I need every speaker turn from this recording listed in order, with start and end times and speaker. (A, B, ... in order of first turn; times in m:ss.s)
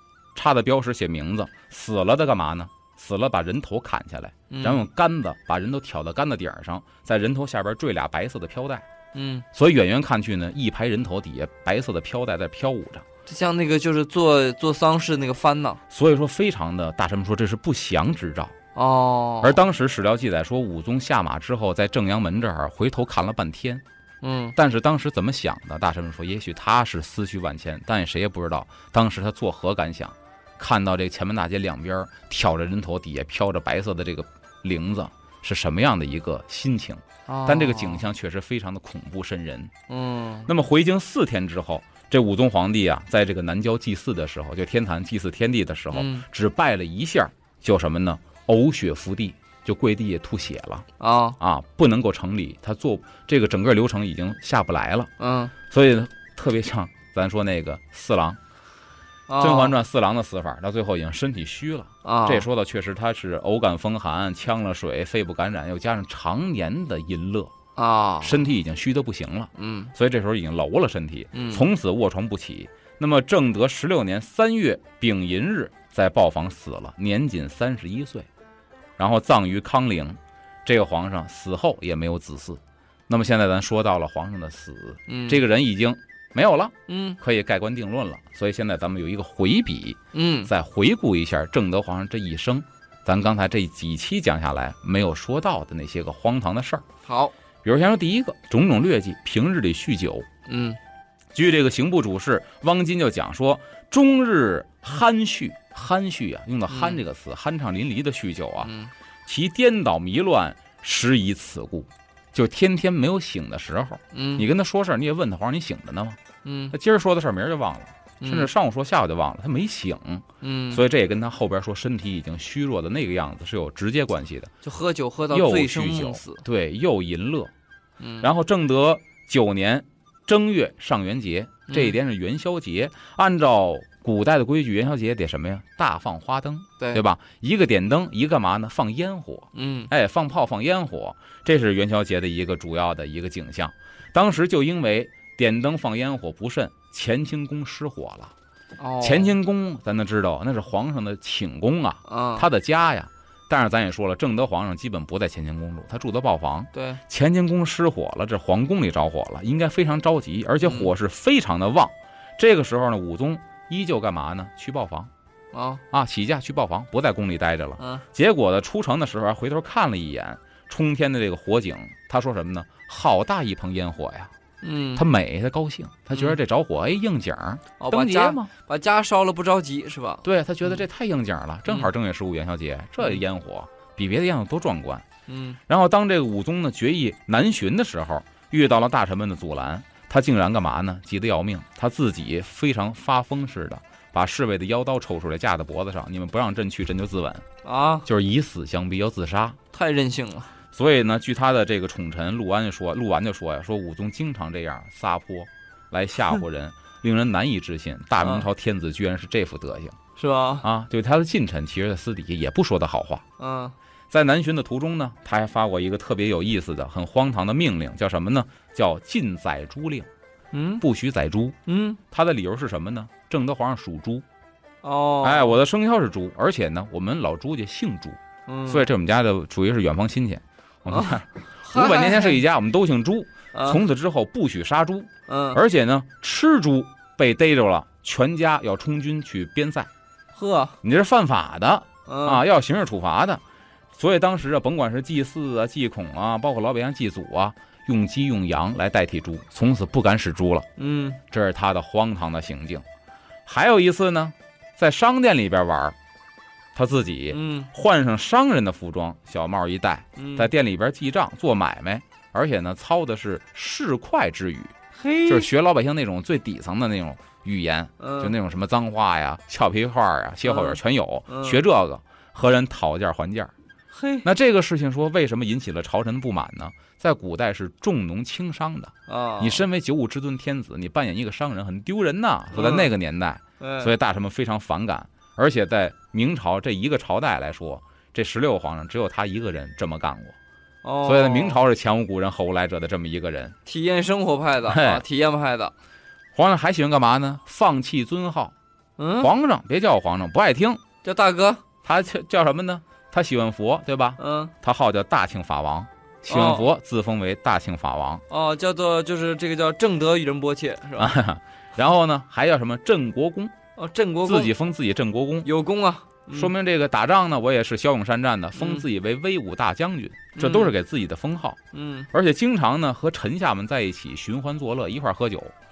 0:00.3-0:08.8 A
0:04.5-0:04.8 B
0:09.1-0:09.4 B
0:09.5-0:13.0 A
0:13.2-0:15.8 B
0:15.9-0:18.6 A
0:18.7-0:19.6 B
0:19.4-0:23.8 A
0:24.2-0:24.6 B
0:24.6-0:39.7 A
0:37.3-0:38.0 B
0:39.9-0:40.5 B
0:40.4-0:50.8 A
0:45.9-0:46.2 B
0:51.0-0:51.4 B
0:51.4-0:55.1 A
0:55.2-0:55.5 B
0:55.7-0:58.4 A
0:59.3-0:59.8 B
0:59.4-1:07.5 A
1:02.0-1:02.4 B
1:07.8-1:08.4 B
1:08.2-1:18.3 A
1:09.6-1:09.9 B
1:11.3-1:11.6 B
1:19.0-1:36.8 A
1:25.1-1:25.4 B
1:26.9-1:27.2 B
1:30.1-1:30.5 B
1:37.0-1:37.3 B
1:37.6-1:40.3 A
1:40.5-1:40.8 B
1:41.3-1:48.7 A
1:46.7-1:47.0 B
1:48.6-1:48.9 B
1:49.2-1:56.2 A
1:54.1-1:54.4 B
1:56.4-1:56.7 B
1:56.7-2:04.5 A
1:58.2-1:58.5 B
2:00.4-2:00.8 B
2:04.6-2:06.4 B
2:05.3-2:07.5 A
2:08.0-2:08.3 B
2:08.2-2:28.3 A
2:11.7-2:12.0 B
2:19.5-2:19.9 B
2:28.8-2:29.3 B
2:29.0-2:45.1 A
2:32.1-2:32.4 B
2:36.7-2:37.0 B
2:40.6-2:40.9 B
2:45.5-2:45.8 B
2:45.9-2:54.3 A
2:47.8-2:48.0 B
2:54.6-2:55.0 B
2:55.0-2:58.5 A
2:57.8-3:00.8 B
3:00.2-3:05.0 A
3:05.3-3:05.6 B
3:05.7-3:17.4 A
3:17.6-3:18.1 B
3:18.0-3:19.6 A
3:19.7-3:20.5 B
3:20.7-3:30.0 A
3:30.2-3:30.6 B
3:30.6-3:33.2 A
3:33.4-3:33.7 B
3:34.1-3:40.1 A
3:40.5-3:40.8 B
3:40.8-3:41.6 A
3:41.6-3:42.0 B
3:42.1-3:44.2 A
3:44.8-3:45.6 B
3:45.2-3:59.9 A
3:48.5-3:48.8 B
3:50.9-3:52.4 B
3:53.5-3:53.8 B
3:55.3-3:55.6 B
4:00.3-4:00.8 B
4:00.8-4:03.4 A
4:02.1-4:02.4 B
4:03.9-4:10.7 A
4:10.8-4:11.2 B
4:11.3-4:12.8 A
4:13.4-4:15.9 A
4:16.7-4:24.7 A
4:17.3-4:17.7 B
4:20.2-4:20.5 B
4:25.0-4:25.5 B
4:25.2-4:33.5 A
4:28.0-4:28.3 B
4:30.4-4:31.6 B
4:33.9-4:34.2 B
4:34.2-4:50.4 A
4:39.1-4:39.6 B
4:42.5-4:42.9 B
4:43.6-4:43.9 B
4:50.8-4:51.6 B
4:51.0-4:53.6 A
4:53.6-4:55.7 B
4:54.7-4:55.0 A
4:56.3-4:58.5 A
4:59.0-4:59.3 B
4:59.2-5:00.8 A
5:01.0-5:01.6 B
5:01.8-5:08.2 A
5:04.2-5:04.5 B
5:06.3-5:06.7 B
5:08.3-5:11.1 B
5:11.0-5:13.5 A
5:13.8-5:14.5 B
5:14.2-5:15.5 A
5:15.4-5:16.5 B
5:16.3-5:21.6 A
5:18.6-5:18.8 B
5:20.4-5:20.7 B
5:21.7-5:22.1 B
5:22.1-5:25.5 A